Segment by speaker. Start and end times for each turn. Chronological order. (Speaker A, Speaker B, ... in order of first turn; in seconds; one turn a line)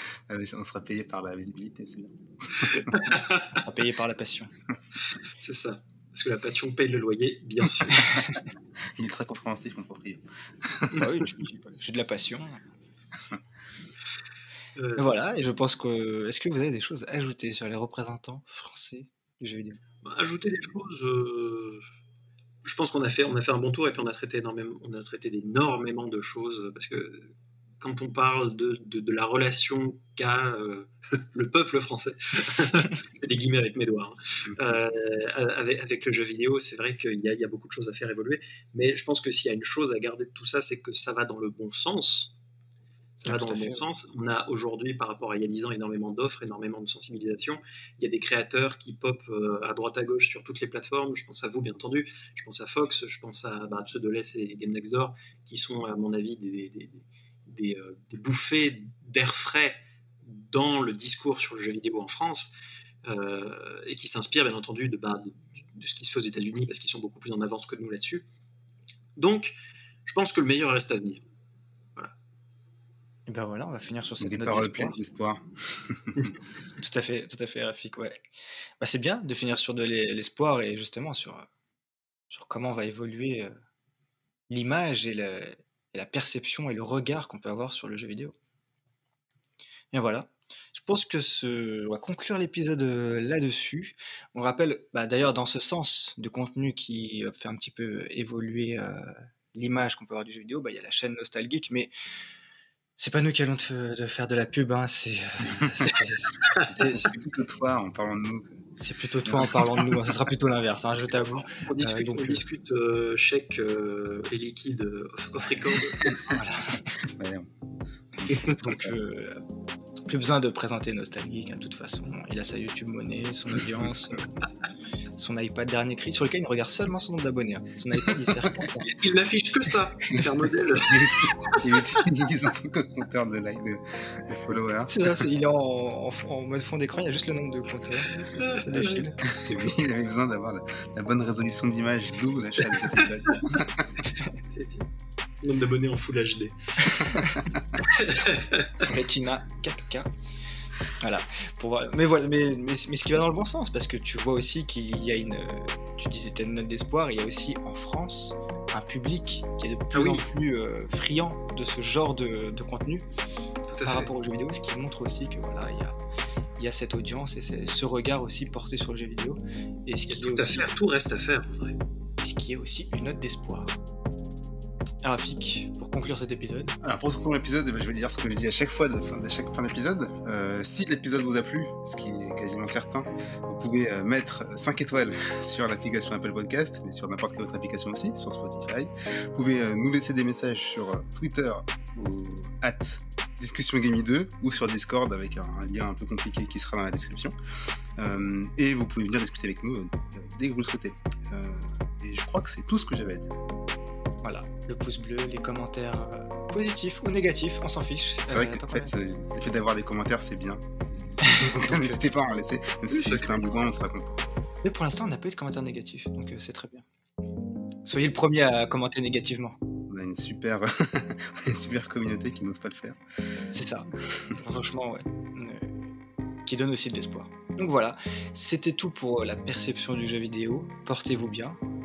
Speaker A: 0.3-2.8
Speaker B: 2.6-3.6
Speaker C: 3.6-4.5
Speaker B: 5.4-8.2
Speaker C: 8.0-8.3
Speaker A: 9.0-11.2
Speaker C: 10.9-12.6
Speaker B: 14.8-15.1
Speaker C: 15.0-19.8
Speaker B: 20.0-21.9
Speaker B: 22.6-42.3
Speaker B: 43.2-62.5
Speaker C: 43.2-43.8
Speaker B: 63.0-68.2
Speaker B: 69.2-71.2
Speaker C: 73.3-75.0
Speaker A: 74.2-76.3
Speaker C: 76.8-78.2
Speaker C: 78.8-81.5
Speaker C: 82.3-83.5
Speaker C: 84.5-88.3
Speaker C: 89.9-101.9
Speaker C: 103.0-107.1
Speaker A: 105.6-105.9
Speaker B: 106.5-106.9
Speaker A: 106.7-108.5
Speaker C: 108.8-112.4
Speaker A: 109.3-110.1
Speaker B: 111.5-116.1
Speaker C: 116.0-116.8
Speaker A: 117.1-117.5
Speaker A: 118.2-118.9
Speaker C: 118.3-119.4
Speaker C: 120.1-124.3
Speaker C: 125.2-128.8
Speaker A: 128.3-128.8
Speaker B: 128.8-132.0
Speaker A: 130.8-135.2
Speaker C: 134.9-139.2
Speaker B: 138.2-139.1
Speaker A: 139.3-143.9
Speaker B: 142.7-143.6
Speaker B: 144.5-144.9
Speaker B: 145.4-147.2
Speaker C: 146.8-147.4
Speaker B: 147.8-148.7
Speaker C: 148.8-150.1
Speaker C: 151.0-163.0
Speaker B: 159.9-160.2
Speaker B: 163.7-164.1
Speaker C: 163.8-166.0
Speaker C: 166.6-170.7
Speaker B: 170.1-171.8
Speaker C: 172.2-173.8
Speaker C: 175.0-176.8
Speaker A: 176.8-197.3
Speaker A: 198.0-203.3
Speaker C: 204.2-208.9
Speaker A: 208.3-214.2
Speaker C: 211.2-212.0
Speaker B: 212.9-213.6
Speaker C: 214.6-216.9
Speaker C: 217.8-219.6
Speaker A: 219.9-223.0
Speaker C: 223.5-231.6
Speaker A: 224.1-224.3